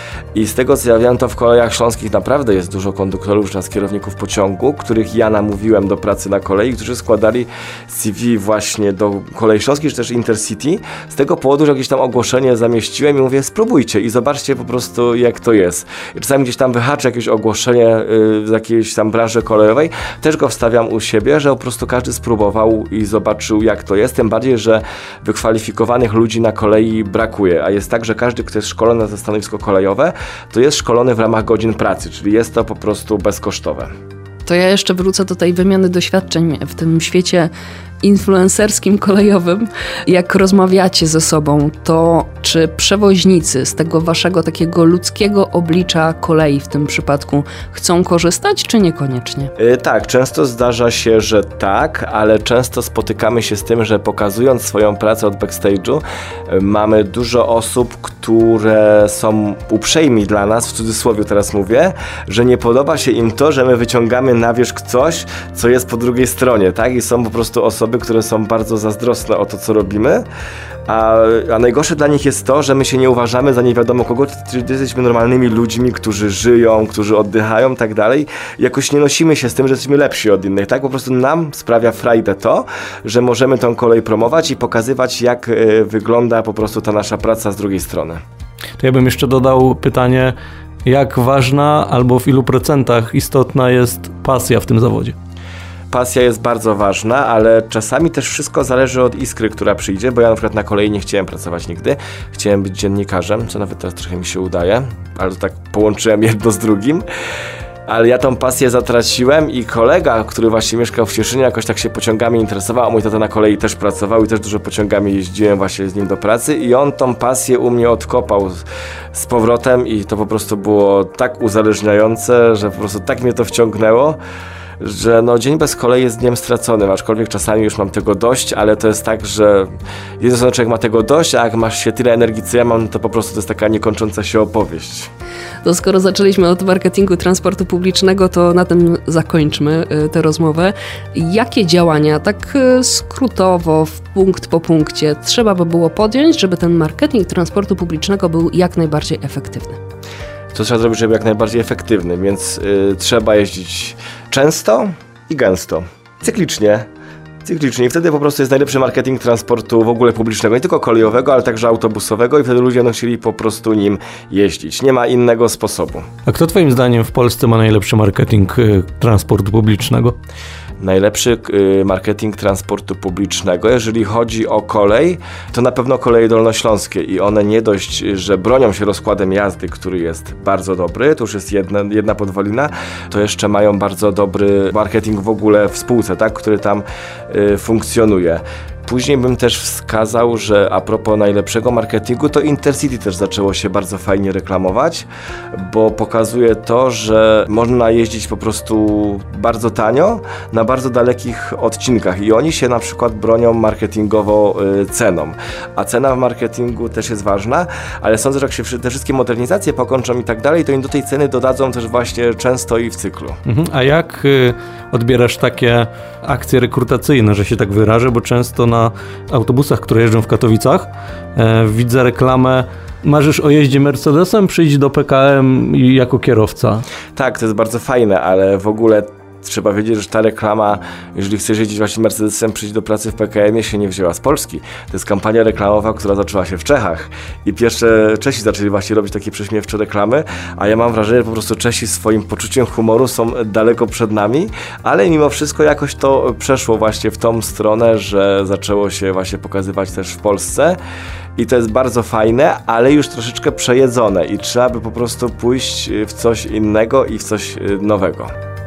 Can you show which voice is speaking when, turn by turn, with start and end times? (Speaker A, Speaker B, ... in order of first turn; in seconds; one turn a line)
Speaker A: 0.3-33.9
Speaker B: 34.5-37.5
Speaker B: 38.0-49.5
Speaker A: 49.6-70.2
Speaker A: 70.9-88.2
Speaker C: 88.8-95.2
Speaker A: 95.9-107.0
Speaker A: 107.9-124.2
Speaker A: 124.8-135.1
Speaker B: 135.6-149.8
Speaker A: 150.5-156.9
Speaker A: 157.4-166.1
Speaker C: 166.3-170.2
Speaker A: 170.8-213.4
Speaker C: 213.5-226.8
Speaker A: 227.2-250.8
Speaker A: 251.4-258.3